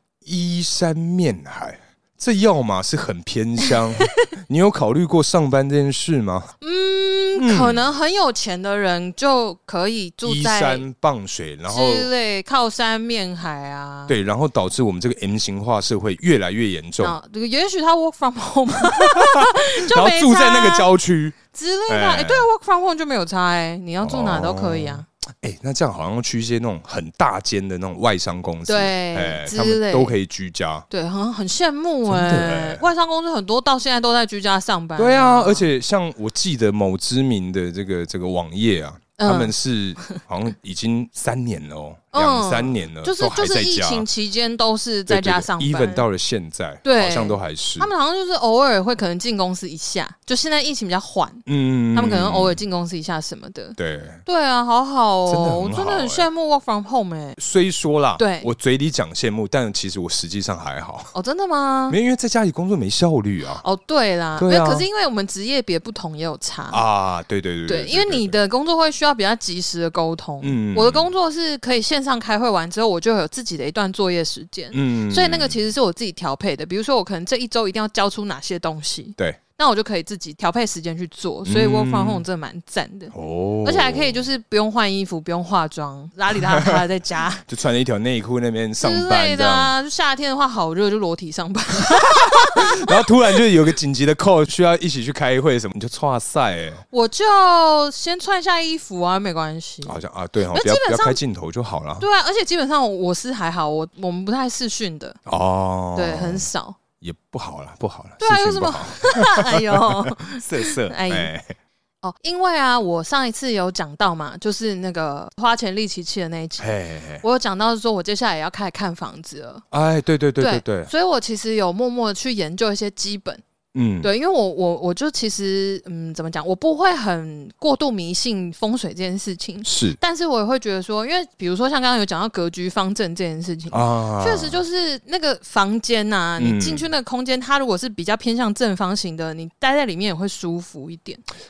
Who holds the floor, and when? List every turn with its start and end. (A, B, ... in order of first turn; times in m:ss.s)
0:00.2-0:06.5 A
0:06.6-0:10.8 B
0:07.4-0:07.8 A
0:10.2-0:12.1 A
0:11.7-0:14.2 B
0:14.1-0:17.2 A
0:17.0-0:20.9 B
0:18.8-0:21.4 A
0:21.5-0:25.0 B
0:21.9-0:22.5 A
0:24.0-0:30.9 A
0:28.7-0:30.2 B
0:30.9-0:35.7 B
0:32.1-0:32.8 A
0:35.0-0:44.1 A
0:39.2-0:39.5 B
0:42.1-0:46.0 B
0:45.1-0:47.9 A
0:46.8-0:57.4 B
0:51.5-0:52.6 A
0:53.8-0:54.2 A
0:55.3-0:56.3 A
0:57.4-1:01.1 A
0:58.2-0:58.5 B
1:01.1-1:02.0 B
1:01.9-1:03.6 A
1:03.6-1:06.8 B
1:04.4-1:04.9 A
1:06.7-1:08.3 A
1:07.7-1:23.1 B
1:10.4-1:11.1 A
1:14.7-1:15.6 A
1:21.4-1:22.2 A
1:23.1-1:24.2 A
1:23.6-1:27.4 B
1:27.5-1:29.7 A
1:28.8-1:33.0 B
1:31.8-1:36.8 A
1:36.9-1:40.0 B
1:39.8-1:42.0 A
1:40.5-1:41.2 B
1:42.0-1:45.2 B
1:45.3-1:46.4 A
1:46.0-1:46.8 B
1:47.0-1:51.5 A
1:48.2-1:51.3 B
1:52.0-1:59.6 B
1:56.6-1:57.2 A
1:59.7-2:00.9 A
2:00.4-2:03.4 B
2:03.7-2:04.1 A
2:04.0-2:21.2 B
2:09.6-2:10.0 A
2:13.7-2:14.6 A
2:16.4-2:16.9 A